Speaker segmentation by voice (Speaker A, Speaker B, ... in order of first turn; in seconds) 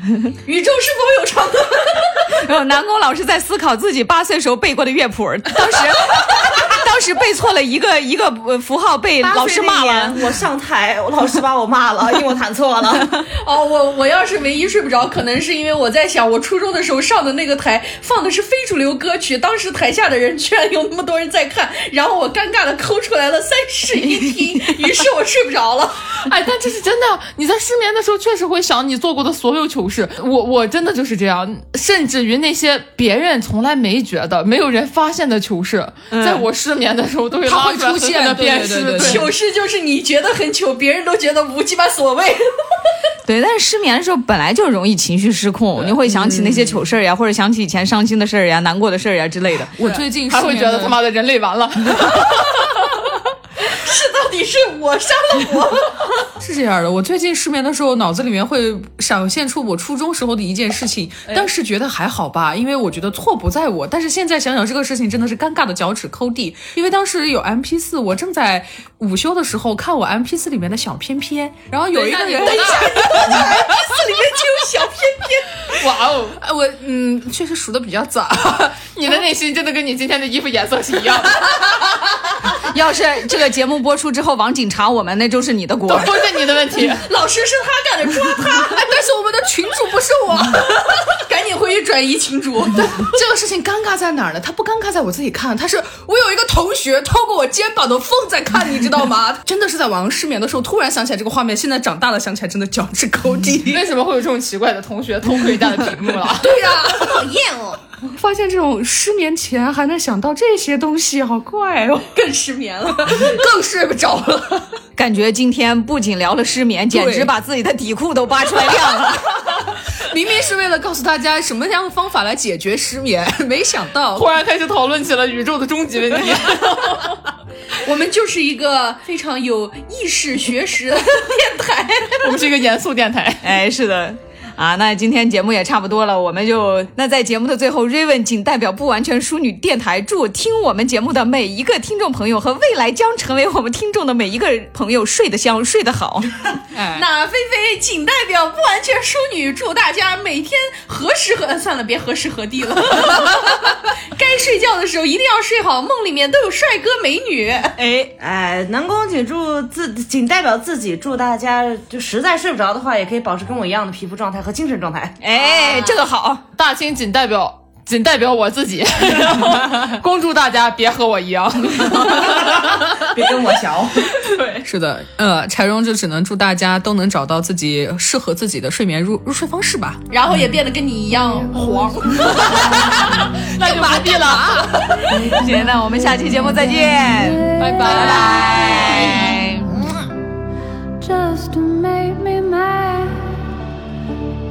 Speaker A: 0.4-2.3, 5.6-6.2, 13.3-26.0, 39.0-42.5, 53.6-56.3, 72.3-75.6, 86.8-88.9, 90.4-93.1, 106.6-107.8, 112.1-113.4, 127.8-132.3, 146.8-157.8, 165.3-166.1, 174.3-174.6, 180.1-183.1
Speaker B: 2.2-10.2, 43.2-49.7, 82.5-86.3, 115.0-119.6, 133.4-146.4, 157.8-158.1, 165.2-166.4, 185.1-189.8
Speaker C: 9.2-13.2, 158.2-165.2, 172.3-174.1
Speaker D: 26.2-39.3, 50.3-52.6, 71.9-73.1, 75.8-76.4, 78.9-81.5, 85.8-87.1, 103.7-106.5, 124.1-127.1, 132.2-133.5, 166.5-172.5, 183.1-184.9, 187.6-188.9
Speaker E: 37.4-39.3, 45.8-46.8, 49.7-51.0, 56.4-73.9, 76.4-78.9, 88.2-91.0, 92.8-103.8, 106.3-107.3, 108.0-112.1, 113.0-114.8, 116.9-117.3, 120.0-124.3, 174.2-180.0, 182.3-185.2
Speaker F: 185.1-188.8, 191.0-193.5